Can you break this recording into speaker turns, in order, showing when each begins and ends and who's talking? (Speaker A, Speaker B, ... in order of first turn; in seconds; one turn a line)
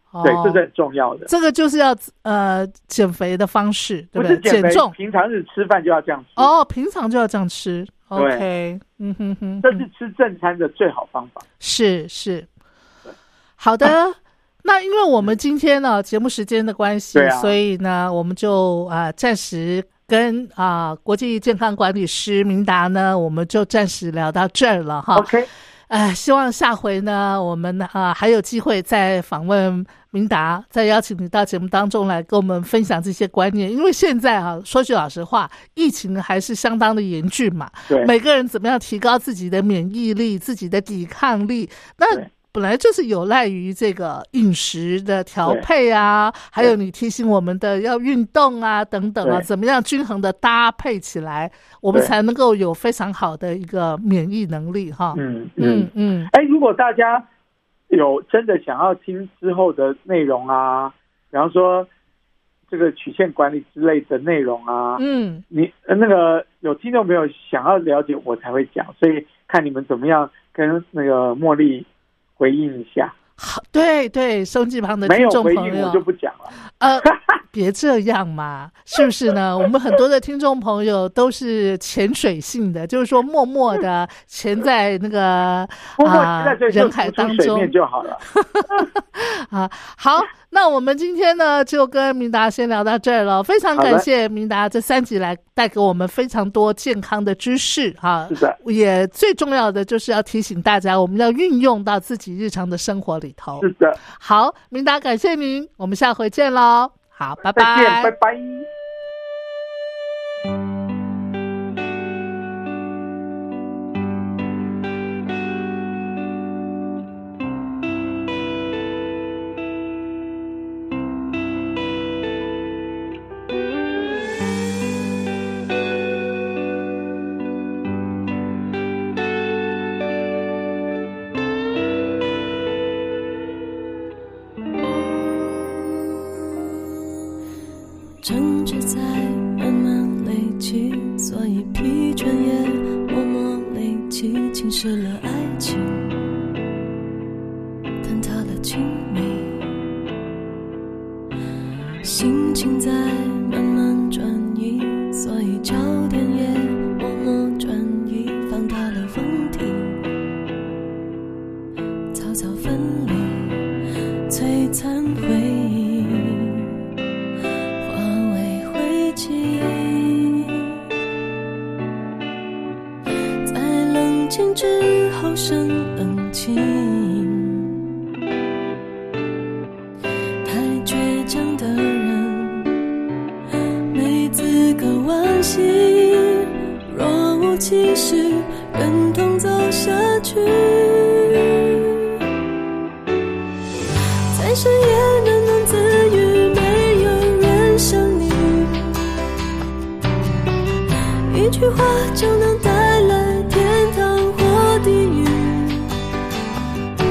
Speaker A: 0.1-0.6
Speaker B: 0.2-1.3
Speaker A: 1.3-5.0
Speaker B: 4.2-6.5
Speaker A: 6.4-9.8
Speaker B: 8.2-8.5
Speaker B: 9.6-11.4
Speaker A: 11.6-12.5
Speaker A: 13.6-25.3
Speaker B: 17.1-17.6
Speaker B: 25.2-25.5
Speaker A: 25.9-56.3
Speaker B: 55.1-57.2
Speaker B: 57.9-61.9
Speaker B: 62.7-71.9
Speaker A: 65.0-65.4
Speaker B: 72.4-73.2
Speaker A: 73.4-76.0
Speaker B: 75.0-76.5
Speaker A: 76.7-87.7
Speaker B: 77.0-77.4
Speaker B: 86.0-88.8
Speaker A: 88.3-108.1
Speaker B: 93.8-94.1
Speaker B: 98.3-98.6
Speaker B: 103.6-104.0
Speaker B: 107.5-108.7
Speaker C: 138.2-146.2
Speaker C: 148.0-149.7
Speaker C: 152.0-160.0
Speaker C: 162.1-163.7
Speaker C: 164.3-166.7
Speaker C: 167.8-170.7
Speaker C: 173.4-177.8
Speaker C: 180.4-182.7
Speaker C: 183.9-192.2
Speaker C: 194.3-198.9
Speaker C: 201.3-205.9